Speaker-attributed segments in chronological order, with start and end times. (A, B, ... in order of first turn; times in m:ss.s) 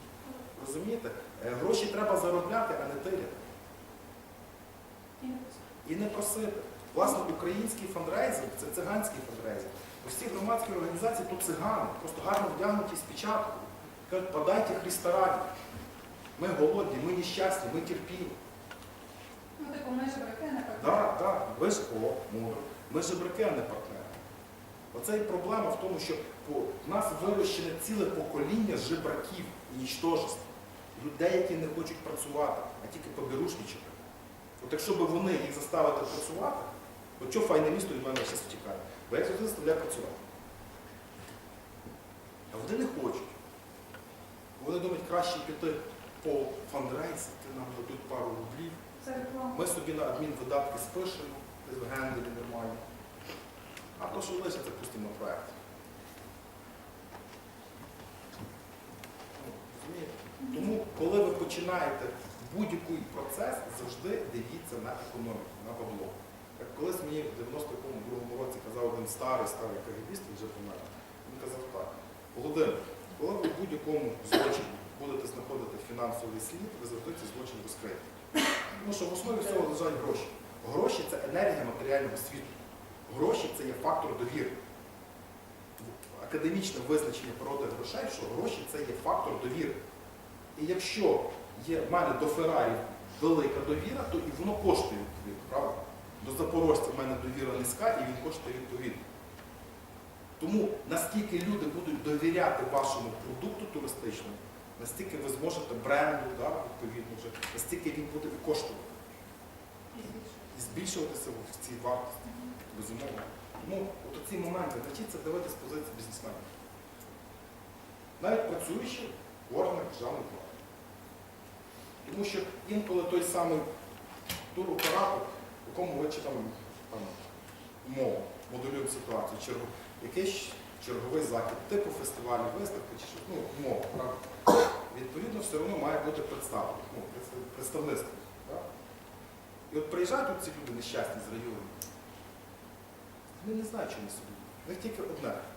0:00.5-0:03.4 A
0:05.2-0:05.6 B
0:05.8-0:15.5 A
0:16.4-0:18.4 A
0:19.6-0:21.1 B
0:20.8-0:24.2 A
0:24.9-0:34.0 A
0:34.6-0:40.2 A
0:42.5-0:43.3 A
0:44.6-0:52.8 A
0:49.0-0:49.6 B
0:54.0-0:55.5 A
0:59.4-1:18.1 A
1:00.4-1:00.8 B
1:18.7-1:24.6 A
1:25.8-1:29.8 A
1:30.6-1:39.0 A
1:40.4-1:49.1 A
1:49.9-1:50.5 B
1:50.5-1:56.4 A
1:52.3-1:52.6 B
1:58.2-2:00.5 A
2:02.0-2:03.7 A
2:04.5-2:07.3 A
2:07.8-2:14.2 A
2:14.9-2:18.6 A
2:19.7-2:21.8 A
2:23.4-2:25.4 A